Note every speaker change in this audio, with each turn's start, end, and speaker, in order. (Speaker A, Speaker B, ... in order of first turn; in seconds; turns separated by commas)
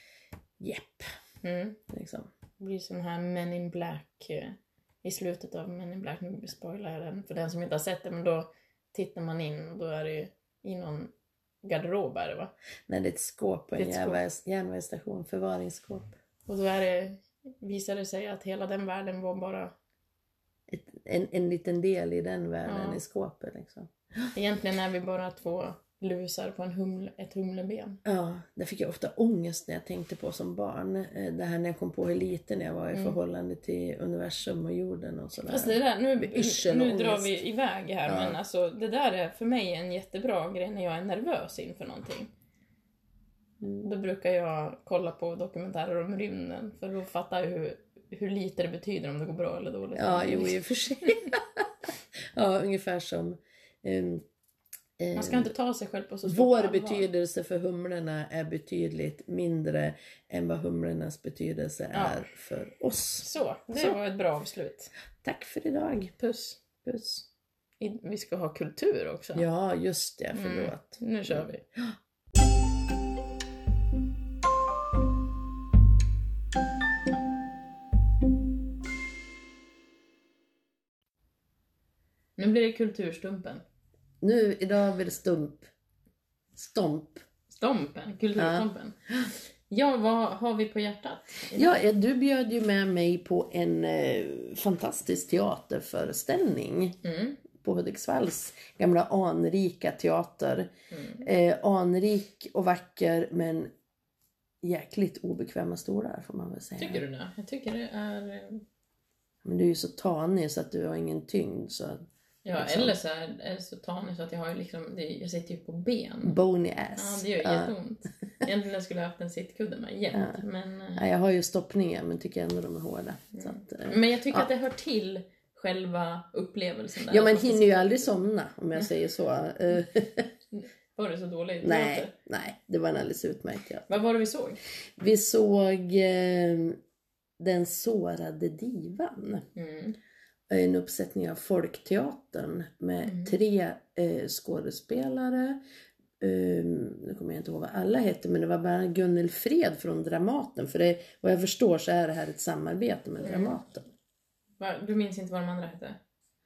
Speaker A: 0.6-1.1, Speaker B: 1.4-1.8, Speaker A: 1.9-2.3, Speaker B: 2.6-11.1, Speaker B: 11.6-12.5, Speaker A: 12.9-16.1, Speaker B: 13.8-14.2, Speaker B: 16.5-19.7, Speaker A: 20.7-24.3, Speaker B: 22.6-23.0, Speaker B: 24.3-28.0, Speaker A: 28.0-37.4, Speaker B: 35.5-42.3, Speaker A: 38.0-38.4, Speaker A: 43.6-43.9, Speaker B: 43.8-50.6, Speaker A: 50.0-54.2, Speaker A: 55.0-55.5, Speaker B: 55.1-57.1, Speaker A: 56.2-64.0, Speaker B: 61.9-62.2, Speaker B: 63.2-64.9, Speaker A: 65.2-66.1, Speaker B: 66.2-66.6, Speaker A: 66.8-67.2, Speaker B: 67.8-69.5, Speaker A: 69.3-71.5, Speaker B: 70.3-71.6, Speaker B: 82.4-83.6, Speaker A: 84.2-85.7, Speaker A: 86.5-87.2, Speaker B: 87.5-91.8, Speaker A: 88.4-88.7, Speaker A: 91.5-97.0, Speaker B: 97.0-97.4, Speaker A: 97.5-100.7, Speaker B: 100.9-101.3, Speaker A: 101.2-103.7, Speaker A: 104.6-107.0, Speaker B: 106.8-108.6, Speaker A: 109.4-112.0, Speaker B: 112.4-116.4, Speaker A: 112.5-112.9, Speaker A: 116.2-117.7, Speaker B: 116.9-121.0, Speaker A: 120.1-120.4, Speaker A: 121.0-124.5, Speaker B: 123.3-128.1, Speaker A: 127.1-130.3, Speaker B: 130.5-132.1, Speaker A: 131.6-133.9, Speaker B: 133.9-134.6, Speaker A: 135.0-136.8, Speaker A: 137.4-139.4, Speaker B: 139.5-140.0, Speaker A: 140.5-145.6, Speaker B: 143.0-143.3, Speaker A: 146.2-153.8, Speaker B: 153.2-153.6, Speaker B: 154.6-156.0